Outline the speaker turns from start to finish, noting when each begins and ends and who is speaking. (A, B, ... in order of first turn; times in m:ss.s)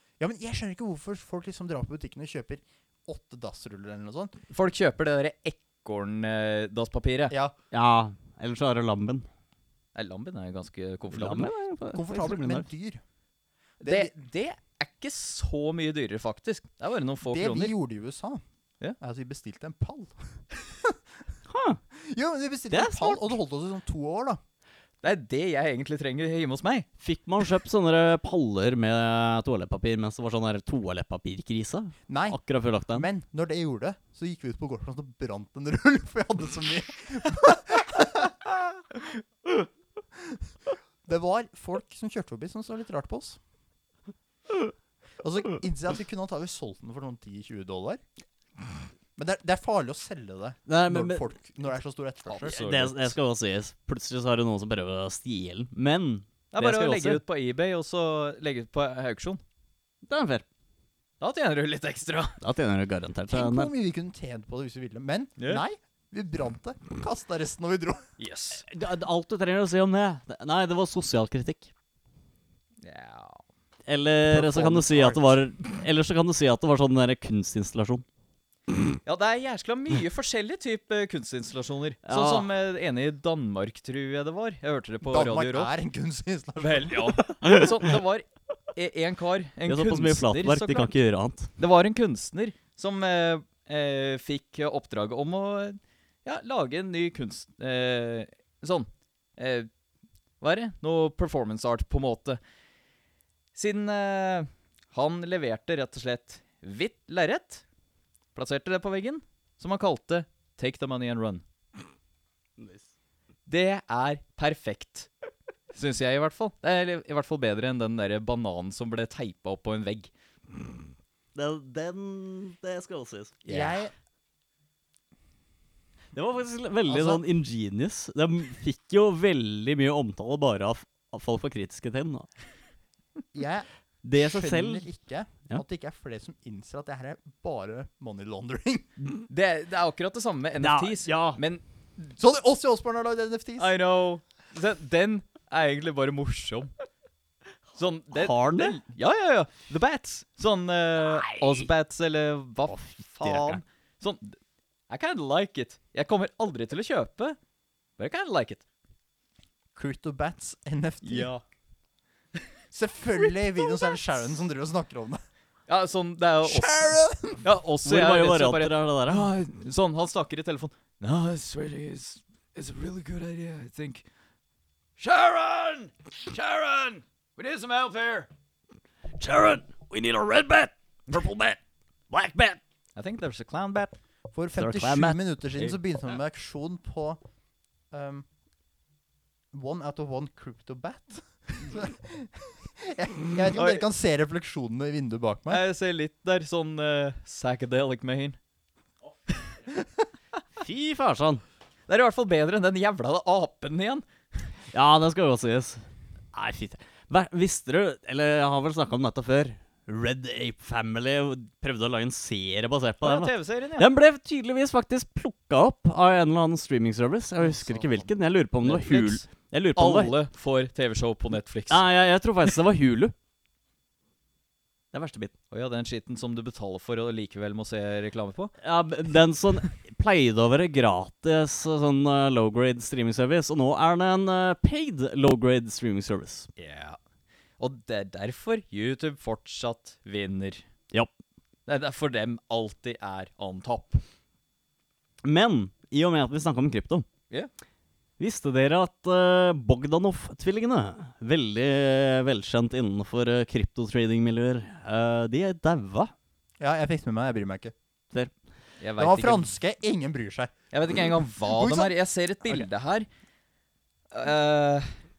0:00.2-0:04.3 A
0:04.5-0:07.3 B
0:07.3-0:07.5 A
0:07.7-0:09.2 C
0:09.9-0:11.5 B
0:11.1-0:12.6 C
0:11.9-0:13.0 A
0:13.8-0:14.1 A
0:13.8-0:17.7 B
0:17.2-0:18.4 A
0:19.0-0:21.0 A
0:21.5-0:21.8 C
0:21.9-0:24.4 A
0:22.7-0:23.3 C
0:25.0-0:26.9 B
0:27.0-0:33.1 C
0:32.1-0:32.4 A
0:32.9-0:38.8 A
0:40.2-0:40.4 A
0:41.0-0:43.4 A
0:45.2-0:48.0 A
0:49.2-0:52.6 A
0:50.7-0:51.2 C
0:52.3-0:53.1 B
0:52.4-0:57.2 C
0:56.5-0:59.4 B
1:00.0-1:00.4 C
1:01.2-1:02.4 B
1:02.4-1:03.7 C
1:03.3-1:08.0 A
1:05.4-1:05.6 B
1:08.2-1:08.6 B
1:08.7-1:11.7 C
1:12.8-1:13.4 B
1:13.9-1:18.0 C
1:14.3-1:15.4 A
1:19.0-1:25.7 B
1:22.0-1:22.5 C
1:25.0-1:27.2 A
1:26.6-1:30.9 B
1:29.6-1:31.5 C
1:31.6-1:39.7 B
1:40.4-1:42.4 B
1:43.5-1:47.6 B
1:48.3-1:51.4 B
1:52.6-1:52.8 C
1:53.5-1:55.1 B
1:55.7-2:00.1 B
2:01.3-2:03.4 C
2:03.4-2:03.8 B
2:03.4-2:03.9 A
2:06.1-2:12.3 C
2:06.9-2:07.2 A
2:13.3-2:18.9 A
2:14.0-2:14.8 C
2:19.3-2:21.6 B
2:20.6-2:21.4 C
2:22.1-2:23.7 A
2:23.6-2:26.7 B
2:27.8-2:34.4 B
2:28.1-2:28.8 C
2:32.7-2:33.6 C
2:34.9-2:37.4 B
2:38.0-2:38.6 B
2:39.8-2:41.3 A
2:41.0-2:41.4 B
2:42.7-2:45.2 A
2:45.7-2:46.9 B
2:46.4-2:47.4 A
2:47.4-2:54.0 B
2:47.8-2:49.3 C
2:55.0-2:58.3 B
2:59.2-3:01.6 C
3:02.1-3:02.6 C
3:03.0-3:04.0 B
3:04.3-3:07.2 A
3:04.6-3:05.7 C
3:07.9-3:08.2 A
3:09.5-3:15.6 A
3:13.5-3:13.8 B
3:15.5-3:18.4 B
3:20.6-3:21.4 C
3:21.9-3:24.0 B
3:24.7-3:25.8 C
3:26.3-3:40.2 C
3:33.0-3:33.8 B
3:37.5-3:37.8 B
3:38.6-3:41.8 B
3:41.7-3:43.1 C
3:44.9-3:45.3 C
3:45.5-3:48.5 B
3:48.6-3:56.5 C
3:56.6-3:57.0 B
3:57.6-4:00.6 B
4:01.7-4:04.0 B
4:05.2-4:07.0 C
4:08.2-4:16.1 C
4:16.6-4:17.7 A
4:18.8-4:19.5 B
4:19.0-4:20.5 A
4:20.7-4:23.1 B
4:21.5-4:21.9 A
4:24.1-4:24.9 B